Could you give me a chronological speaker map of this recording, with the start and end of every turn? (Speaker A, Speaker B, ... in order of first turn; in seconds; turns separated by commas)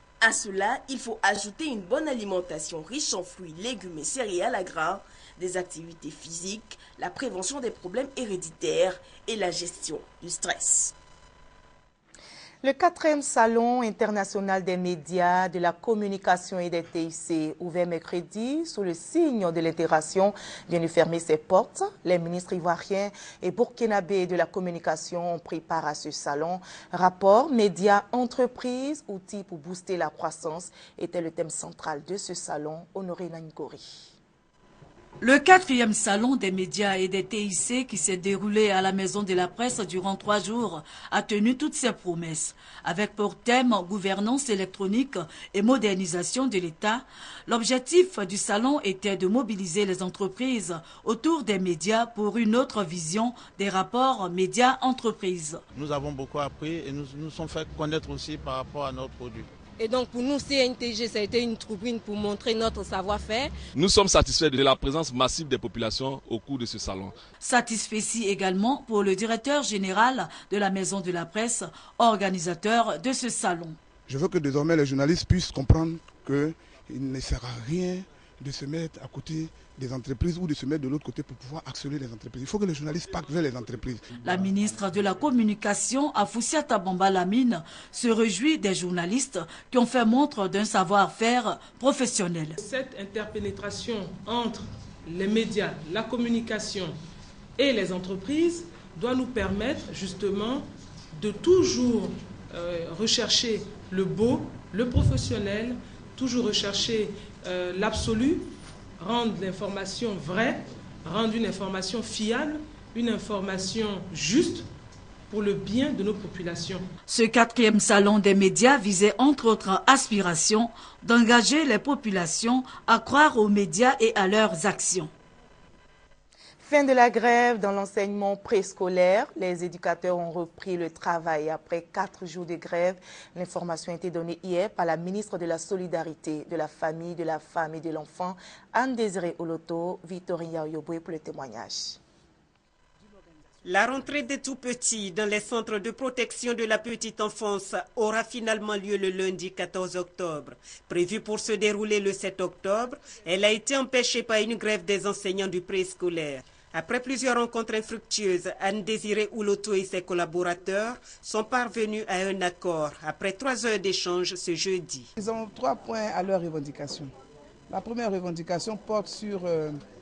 Speaker A: 0.2-10.9, Speaker B: 12.6-33.9, Speaker C: 35.2-55.6, Speaker D: 55.7-59.5, Speaker E: 59.8-63.5, Speaker F: 63.8-67.2, Speaker C: 67.4-73.8, Speaker G: 74.1-84.1, Speaker C: 84.2-92.6, Speaker H: 92.6-97.0, Speaker H: 97.6-114.7, Speaker H: 115.3-116.9, Speaker C: 117.1-125.1, Speaker B: 126.6-142.0, Speaker I: 143.6-165.1, Speaker J: 165.2-167.1, Speaker J: 167.7-169.8